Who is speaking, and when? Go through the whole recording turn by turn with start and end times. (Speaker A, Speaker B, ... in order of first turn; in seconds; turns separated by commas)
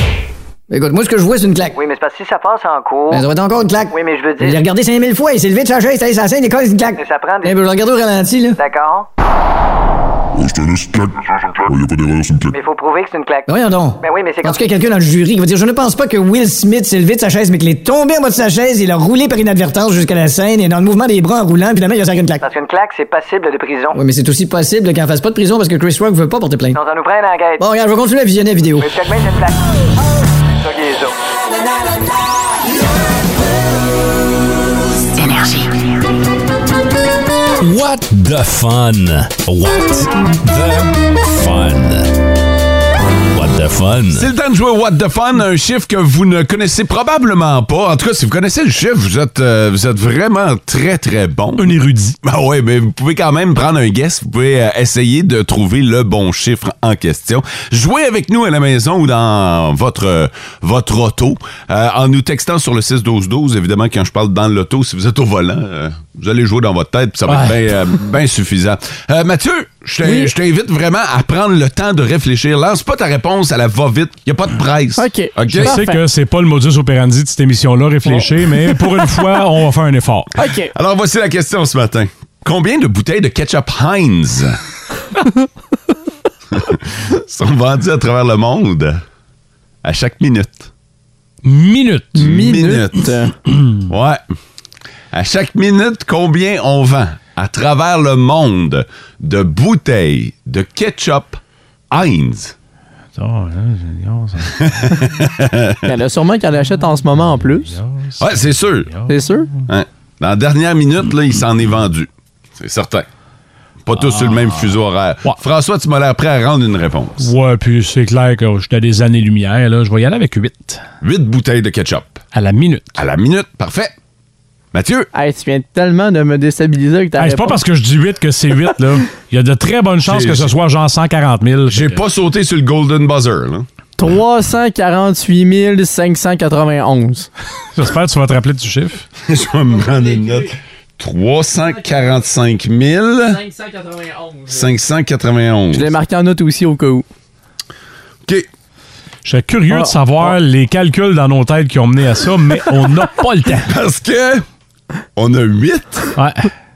Speaker A: 0.7-1.8, Speaker B: 1.8-3.3, Speaker A: 3.1-8.6, Speaker B: 3.9-4.6, Speaker B: 7.0-7.6, Speaker B: 8.6-9.1, Speaker C: 10.3-12.6, Speaker B: 12.5-14.8, Speaker A: 13.5-22.4, Speaker B: 22.4-24.0, Speaker A: 23.9-26.8, Speaker B: 26.7-27.7, Speaker A: 27.6-28.9, Speaker B: 28.8-29.7, Speaker B: 30.6-31.2, Speaker D: 37.6-42.1, Speaker D: 43.3-44.3, Speaker E: 44.1-75.8, Speaker F: 51.6-52.2, Speaker F: 67.3-67.6, Speaker G: 70.0-70.3, Speaker G: 75.0-76.0, Speaker F: 75.5-80.3, Speaker G: 78.1-79.1, Speaker G: 80.4-80.7, Speaker E: 80.7-84.6, Speaker E: 86.5-89.0, Speaker E: 89.8-90.7, Speaker F: 91.4-92.3, Speaker G: 92.2-93.3, Speaker E: 92.2-93.1, Speaker F: 93.6-93.8, Speaker E: 93.9-94.2, Speaker E: 95.1-101.4, Speaker E: 101.9-102.5, Speaker F: 103.2-105.1, Speaker E: 104.6-105.9, Speaker G: 105.8-107.7, Speaker F: 107.5-109.6, Speaker E: 108.2-108.9, Speaker G: 109.1-109.5, Speaker E: 109.7-113.1, Speaker E: 113.9-117.3, Speaker F: 114.0-115.4, Speaker F: 117.2-120.8, Speaker E: 121.0-122.2, Speaker F: 122.3-123.0, Speaker E: 123.0-123.9, Speaker E: 124.7-125.1, Speaker G: 125.1-127.6, Speaker F: 127.2-132.0, Speaker E: 130.0-130.6, Speaker E: 131.7-133.7, Speaker G: 134.0-137.3, Speaker F: 137.8-139.1, Speaker E: 139.2-143.4, Speaker G: 139.8-140.5, Speaker G: 141.7-142.0, Speaker G: 143.2-144.7, Speaker E: 144.5-145.9, Speaker G: 145.7-147.1, Speaker F: 149.2-153.7, Speaker E: 153.6-154.4, Speaker E: 155.2-156.2, Speaker F: 156.2-156.5